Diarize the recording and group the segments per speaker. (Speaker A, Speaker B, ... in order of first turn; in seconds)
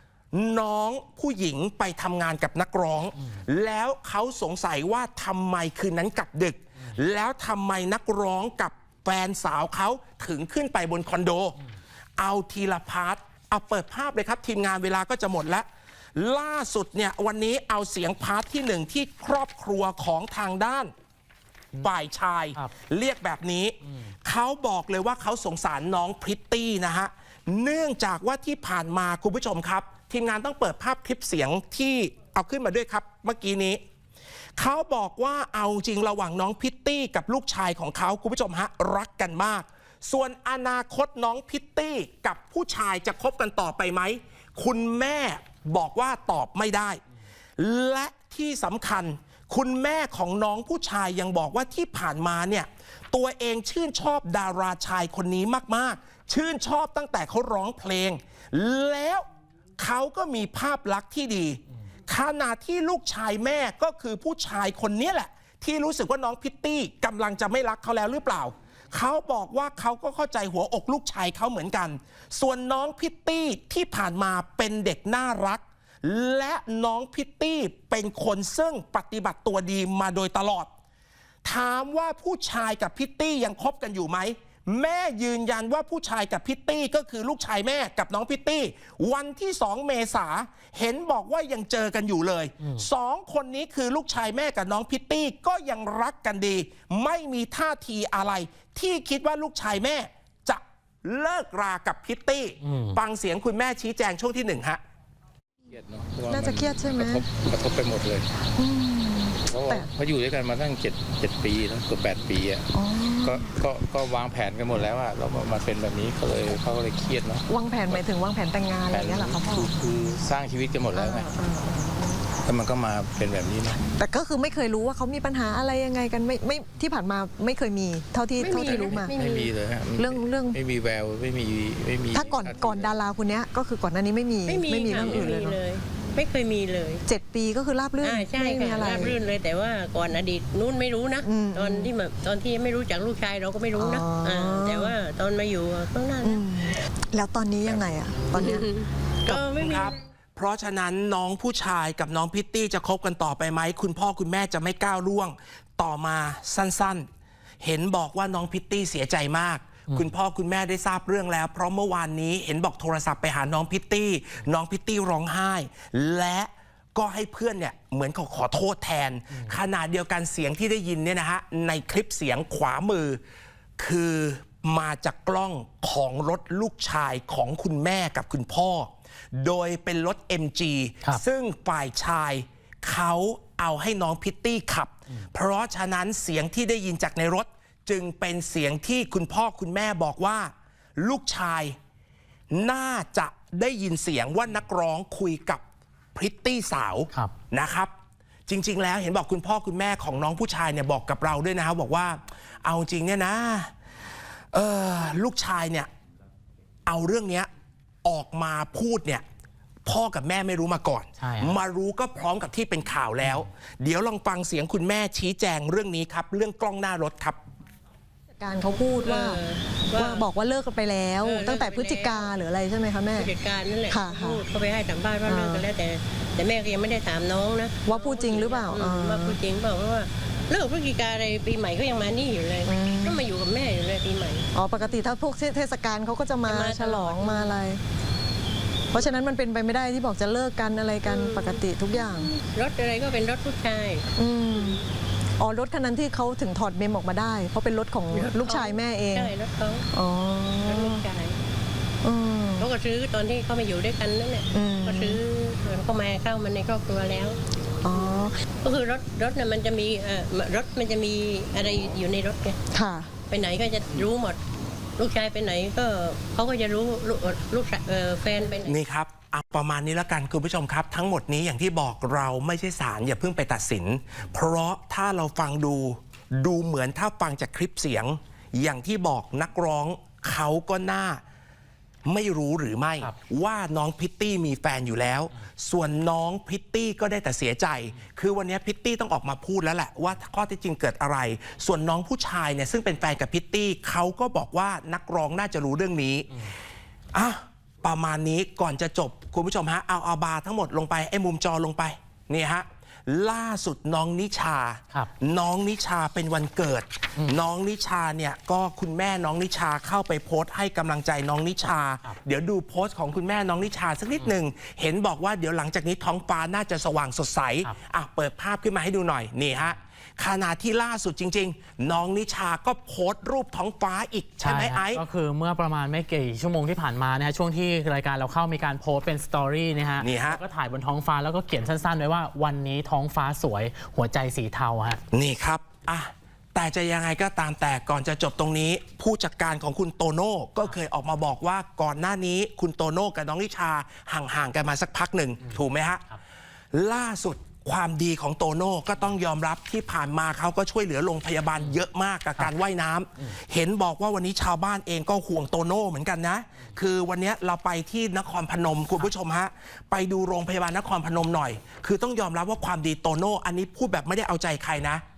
Speaker A: 0.3-11.6, 12.2-20.9, 21.8-33.8, 34.6-47.0, 47.6-59.2, 59.8-80.7, 81.5-104.8, 147.6-147.9, 149.3-157.1, 157.6-173.2, 173.8-191.8, 192.5-195.6, 196.2-197.9, 198.5-203.7, 204.5-205.9, 206.9-207.5, 208.1-209.2, 209.9-217.4, 268.7-281.2, 282.1-296.4, 297.1-325.0, 330.0-330.4, 335.1-346.0, 346.7-365.0
Speaker B: 92.6-92.9, 102.6-103.0, 169.3-169.6, 211.2-211.6, 324.4-335.0, 345.4-346.2
Speaker C: 105.7-108.3, 109.5-112.7, 113.2-118.0, 118.9-121.3, 122.4-123.8, 128.6-132.9
Speaker D: 106.3-107.2, 108.6-109.9, 112.7-113.5, 117.5-119.7, 120.9-122.3, 124.0-129.2, 130.0-130.6, 132.1-135.6, 137.1-139.2, 141.2-141.9, 143.8-144.9, 146.2-148.7, 218.4-219.4, 219.9-223.3, 223.9-224.4, 225.3-225.7, 227.8-229.4, 232.6-233.2, 234.5-237.8, 238.9-242.3, 244.2-244.8, 245.4-249.3, 249.9-251.0, 252.0-252.7, 254.5-255.2, 257.8-258.4, 262.7-263.1
Speaker E: 128.4-129.5, 134.5-137.0, 138.0-146.4, 148.4-150.0, 219.0-220.3, 221.2-222.3, 223.1-234.5, 236.5-237.6, 241.1-244.8, 248.1-249.9, 250.6-251.4, 252.6-257.4, 258.6-262.6, 263.3-264.4, 265.0-268.8